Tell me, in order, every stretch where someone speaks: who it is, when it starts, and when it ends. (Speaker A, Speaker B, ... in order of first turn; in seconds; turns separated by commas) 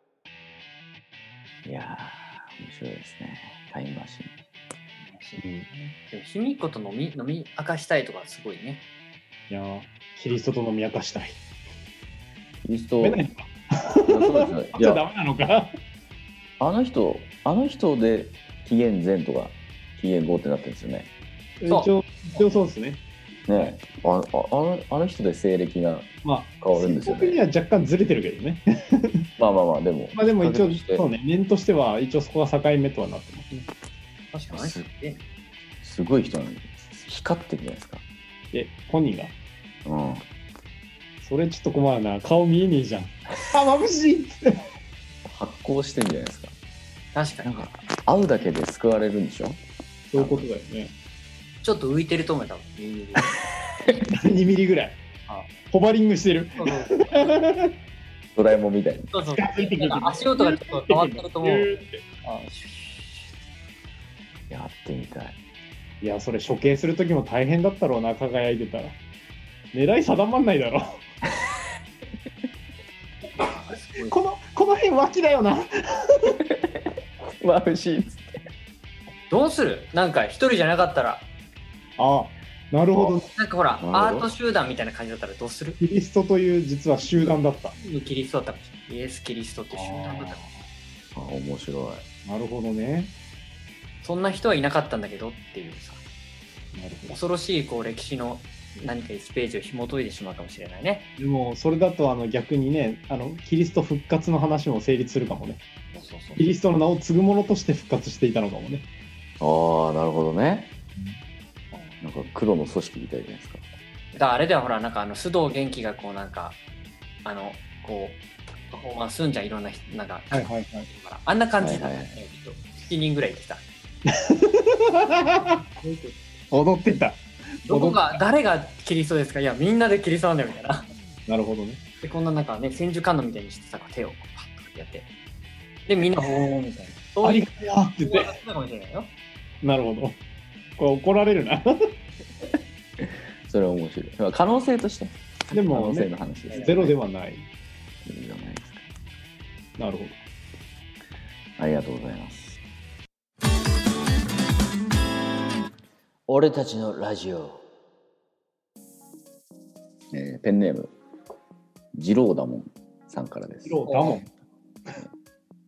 Speaker A: 1.6-4.3, Speaker B: 5.0-8.8, Speaker C: 5.4-5.7, Speaker C: 9.5-11.4, Speaker A: 12.6-13.2, Speaker C: 13.0-15.7, Speaker A: 14.1-15.0, Speaker A: 16.6-21.1, Speaker C: 21.6-23.0, Speaker B: 21.7-22.4, Speaker A: 23.5-27.4, Speaker C: 26.2-29.3, Speaker A: 29.4-31.0, Speaker C: 30.1-33.7, Speaker B: 34.3-35.2, Speaker A: 34.5-34.9, Speaker A: 35.8-38.0, Speaker C: 38.5-39.3, Speaker A: 39.8-40.2, Speaker C: 41.2-44.6, Speaker A: 45.2-46.5, Speaker B: 47.1-47.7, Speaker A: 47.4-49.6, Speaker C: 50.1-50.9, Speaker A: 50.1-50.5, Speaker B: 51.6-53.4, Speaker C: 53.9-55.0, Speaker C: 55.7-57.7, Speaker B: 56.6-57.3, Speaker A: 58.3-59.1, Speaker B: 59.1-61.7, Speaker C: 59.3-62.0, Speaker B: 62.2-63.3, Speaker A: 64.5-65.3, Speaker C: 66.0-69.0, Speaker C: 69.7-71.0, Speaker B: 73.3-74.2, Speaker C: 74.0-76.3, Speaker A: 76.5-76.9, Speaker A: 77.4-78.4, Speaker B: 79.3-81.2, Speaker C: 82.0-83.3, Speaker B: 83.3-85.8, Speaker A: 83.8-84.3, Speaker C: 85.8-87.7, Speaker B: 87.8-90.4, Speaker C: 89.7-90.6, Speaker A: 91.1-92.0, Speaker C: 92.2-93.1, Speaker B: 94.0-96.0, Speaker C: 96.7-97.2, Speaker B: 97.1-101.0, Speaker C: 101.2-105.6, Speaker B: 105.9-106.5, Speaker C: 106.4-108.9, Speaker A: 109.4-110.7, Speaker B: 111.7-112.0, Speaker A: 112.0-113.6, Speaker B: 114.1-116.6, Speaker B: 117.2-118.2, Speaker B: 118.7-123.6, Speaker C: 120.3-120.9, Speaker A: 121.6-122.2, Speaker C: 124.1-125.1, Speaker B: 125.4-126.2, Speaker C: 126.5-128.2, Speaker B: 127.7-130.9, Speaker C: 131.3-131.8, Speaker B: 132.0-135.1, Speaker B: 135.9-137.4, Speaker C: 137.2-138.3, Speaker B: 138.0-139.1, Speaker C: 139.6-140.2, Speaker C: 140.8-141.6, Speaker A: 143.0-146.9, Speaker C: 145.5-147.5, Speaker B: 146.5-146.8, Speaker A: 148.0-148.8, Speaker C: 149.8-150.2, Speaker A: 151.6-152.6, Speaker A: 156.3-157.6, Speaker A: 160.1-160.9, Speaker A: 161.9-163.9, Speaker C: 163.6-164.3, Speaker B: 163.9-164.2